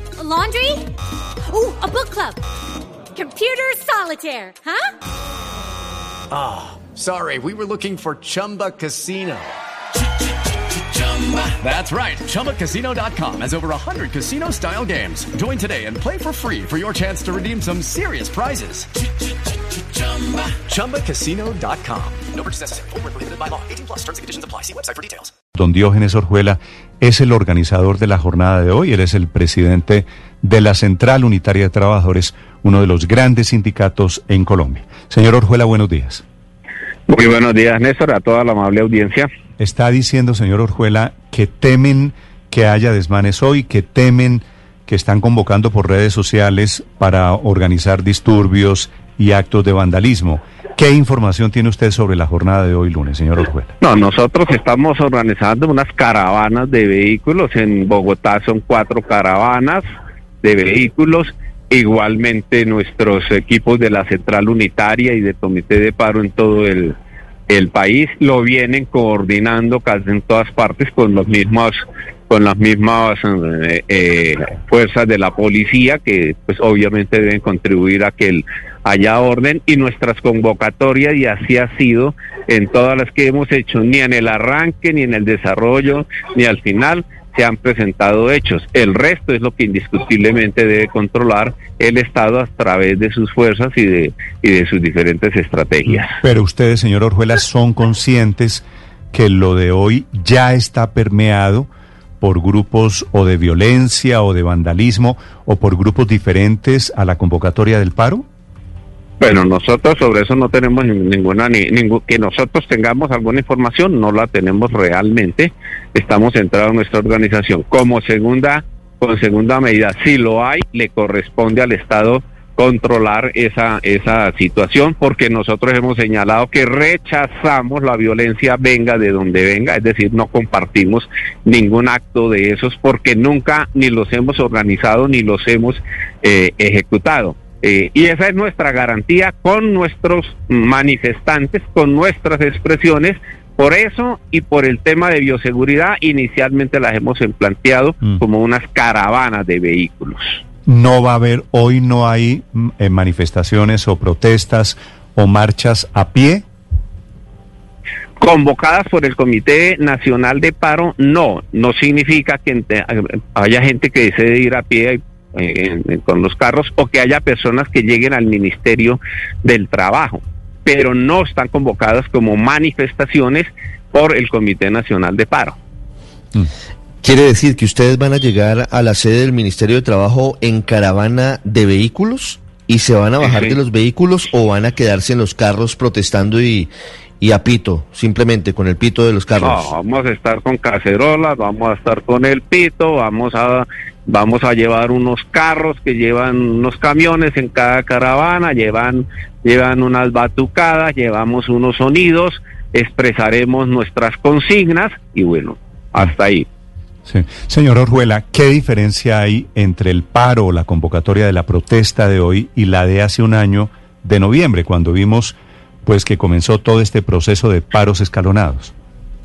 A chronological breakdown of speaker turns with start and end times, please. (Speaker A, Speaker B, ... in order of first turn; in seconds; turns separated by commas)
Speaker A: 0.2-0.8, Speaker A: 1.5-2.4, Speaker A: 3.2-4.9, Speaker B: 6.3-9.6, Speaker B: 10.7-18.9, Speaker B: 19.7-25.3, Speaker C: 25.5-36.2, Speaker D: 37.1-39.3, Speaker C: 39.6-53.7, Speaker D: 53.8-59.8, Speaker D: 60.4-67.0, Speaker D: 67.5-71.8, Speaker D: 72.3-96.1, Speaker C: 95.9-101.7, Speaker C: 102.2-108.2, Speaker D: 109.2-150.4, Speaker C: 150.7-156.4, Speaker D: 158.2-175.6, Speaker E: 177.0-186.7, Speaker D: 183.2-183.6, Speaker E: 187.2-189.7, Speaker D: 189.4-206.5, Speaker C: 207.1-218.7